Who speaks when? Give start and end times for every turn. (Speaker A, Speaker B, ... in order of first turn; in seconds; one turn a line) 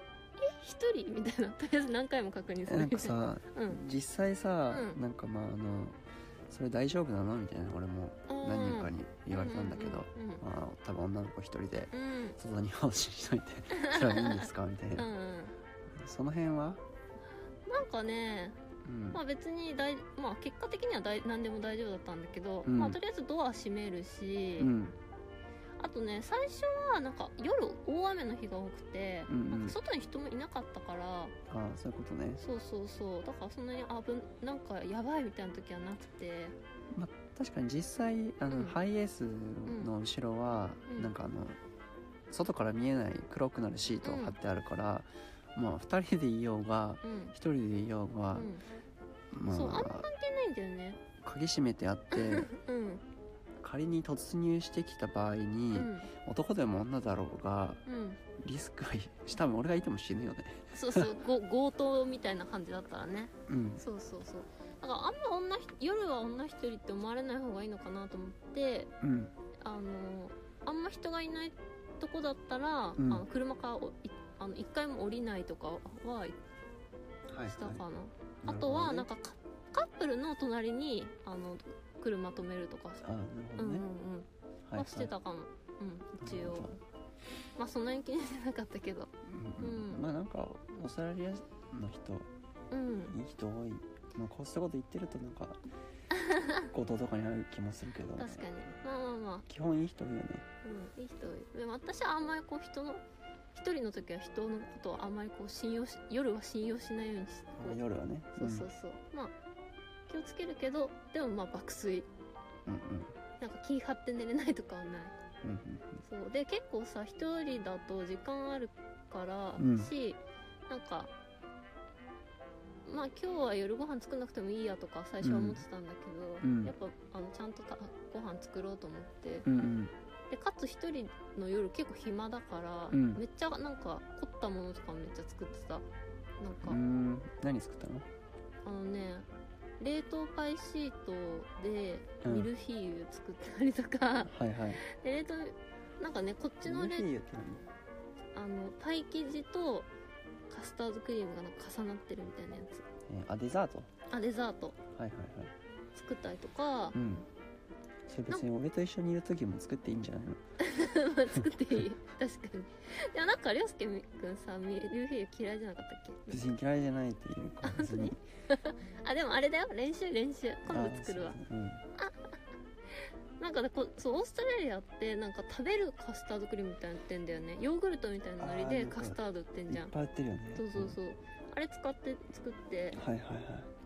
Speaker A: 0.4-3.8
Speaker B: 2.6-15.1
Speaker A: 4.7-5.0
Speaker A: 8.3-10.4
Speaker A: 11.9-12.4
Speaker A: 13.7-15.6
Speaker B: 16.0-16.8
Speaker A: 17.7-18.6
Speaker B: 18.8-19.2
Speaker A: 19.1-24.7
Speaker B: 22.6-23.0
Speaker B: 24.6-24.9
Speaker A: 25.8-31.3
Speaker B: 29.3-29.8
Speaker B: 31.5-32.4
Speaker A: 32.4-36.5
Speaker B: 36.9-41.6
Speaker A: 38.5-38.8
Speaker B: 42.3-48.5
Speaker A: 44.0-44.4
Speaker A: 47.0-47.3
Speaker A: 48.3-48.6
Speaker B: 49.3-50.0
Speaker A: 49.5-51.0
Speaker B: 51.2-52.5
Speaker A: 52.1-53.0
Speaker B: 53.6-57.8
Speaker A: 55.7-56.1
Speaker A: 57.9-58.2
Speaker B: 58.4-61.1
Speaker A: 60.7-68.9
Speaker B: 63.5-63.8
Speaker B: 69.0-69.3
Speaker A: 69.6-76.4
Speaker B: 73.0-73.2
Speaker B: 77.3-77.8
Speaker A: 77.5-83.0
Speaker B: 78.4-79.1
Speaker B: 83.0-83.8
Speaker A: 83.6-86.7
Speaker B: 84.7-85.1
Speaker B: 86.2-86.8
Speaker A: 87.5-90.0
Speaker B: 89.2-92.3
Speaker A: 92.7-93.2
Speaker B: 93.1-95.6
Speaker A: 96.1-96.6
Speaker B: 96.7-98.4
Speaker A: 98.2-99.4
Speaker B: 99.5-100.4
Speaker A: 100.6-103.0
Speaker A: 103.5-107.8
Speaker B: 107.5-108.7
Speaker A: 108.3-109.3
Speaker A: 110.1-112.1
Speaker B: 112.7-113.1
Speaker A: 113.4-115.1
Speaker B: 115.4-116.0
Speaker A: 116.0-121.1
Speaker B: 119.6-119.9
Speaker A: 122.8-129.5
Speaker B: 125.2-125.6
Speaker B: 126.4-126.7
Speaker B: 129.4-129.9
Speaker A: 130.3-135.8
Speaker B: 132.9-133.2
Speaker A: 136.4-136.8
Speaker B: 136.6-138.1
Speaker A: 138.6-139.3
Speaker A: 139.8-147.1
Speaker B: 142.2-142.5
Speaker B: 144.2-144.8
Speaker B: 146.6-147.6
Speaker A: 148.3-149.9
Speaker A: 150.5-152.8
Speaker B: 153.1-153.9
Speaker A: 154.1-154.8
Speaker B: 154.9-155.5
Speaker A: 155.9-156.9
Speaker B: 156.9-157.3
Speaker B: 158.1-160.4
Speaker A: 160.6-166.5
Speaker B: 166.3-168.2
Speaker A: 167.6-171.4
Speaker B: 170.7-171.8
Speaker A: 171.9-172.3
Speaker A: 173.4-179.9
Speaker B: 178.4-181.0
Speaker A: 180.5-183.0
Speaker B: 182.9-183.7